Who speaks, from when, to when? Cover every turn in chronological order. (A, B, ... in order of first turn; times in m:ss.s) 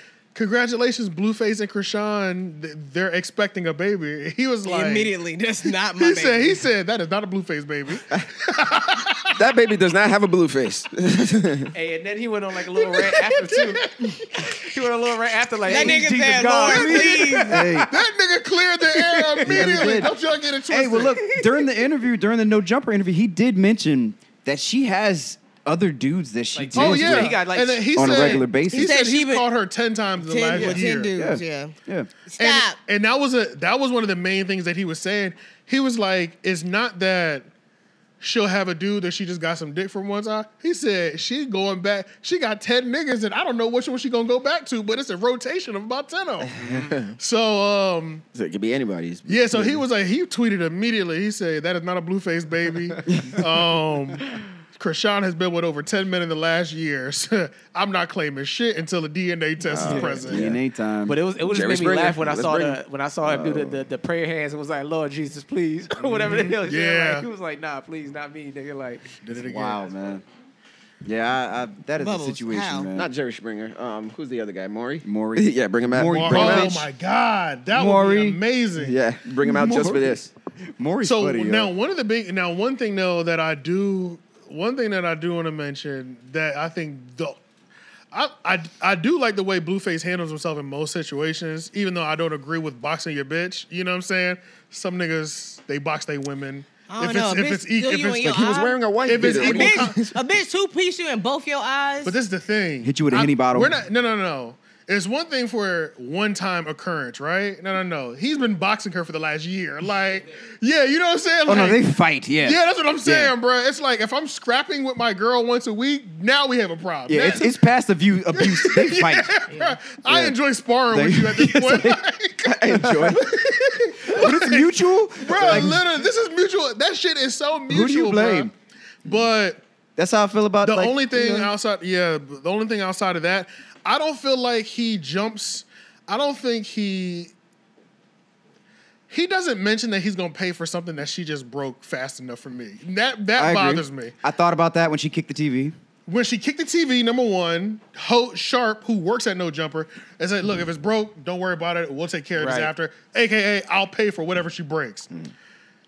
0:00.3-0:05.1 A
0:04.6-0:06.6 B
0:06.0-0:09.4 A
0:09.4-0:11.7 C
0:11.7-0:18.0 D
0:12.8-0:14.7 A
0:15.6-0:17.6 B
0:16.7-0:21.4 A
0:17.4-0:17.9 E
0:18.9-0:20.0 D
0:19.4-0:20.1 E
0:20.7-0:27.4 E
0:26.5-0:28.4 D
0:26.7-0:31.1 A
0:27.9-0:28.9 E
0:28.7-0:29.5 B
0:30.2-0:31.7 B
0:31.2-0:32.1 E
0:32.3-0:32.8 B
0:32.4-0:37.5 A
0:38.2-0:46.6 A
0:46.6-0:46.9 D
0:46.6-0:47.1 C
0:47.2-0:48.2 A
0:48.3-0:49.8 C
0:49.2-1:00.6 A
0:53.1-0:53.4 E
0:59.6-1:00.5 C
0:59.8-1:00.3 D
1:00.2-1:01.2 E
1:01.0-1:09.1 D
1:01.4-1:03.8 C
1:06.0-1:07.3 A
1:09.2-1:09.9 A
1:09.3-1:10.2 E
1:11.0-1:13.1 E
1:12.0-1:12.9 B
1:12.9-1:16.8 C
1:15.0-1:16.9 E
1:16.0-1:20.2 A
1:17.7-1:18.4 E
1:18.8-1:20.3 C
1:19.5-1:20.2 E
1:20.8-1:21.7 E
1:21.0-1:27.4 A
1:28.1-1:40.0 A
1:36.9-1:42.1 B
1:38.2-1:40.2 C
1:42.0-1:51.8 A
1:42.8-1:43.8 E
1:51.4-1:53.3 E
1:52.4-1:57.5 A
1:57.1-1:59.3 E
1:58.3-2:08.5 A
1:59.5-1:59.8 B
2:00.0-2:00.4 E
2:00.9-2:02.0 E
2:02.4-2:04.2 C
2:02.7-2:03.4 E
2:04.0-2:05.8 E
2:05.3-2:05.7 C
2:07.7-2:08.5 E
2:09.0-2:09.6 A
2:10.0-2:11.5 E
2:10.6-2:17.3 A
2:19.1-2:24.1 A
2:23.4-2:25.8 E
2:26.1-2:35.1 A
2:32.4-2:32.7 D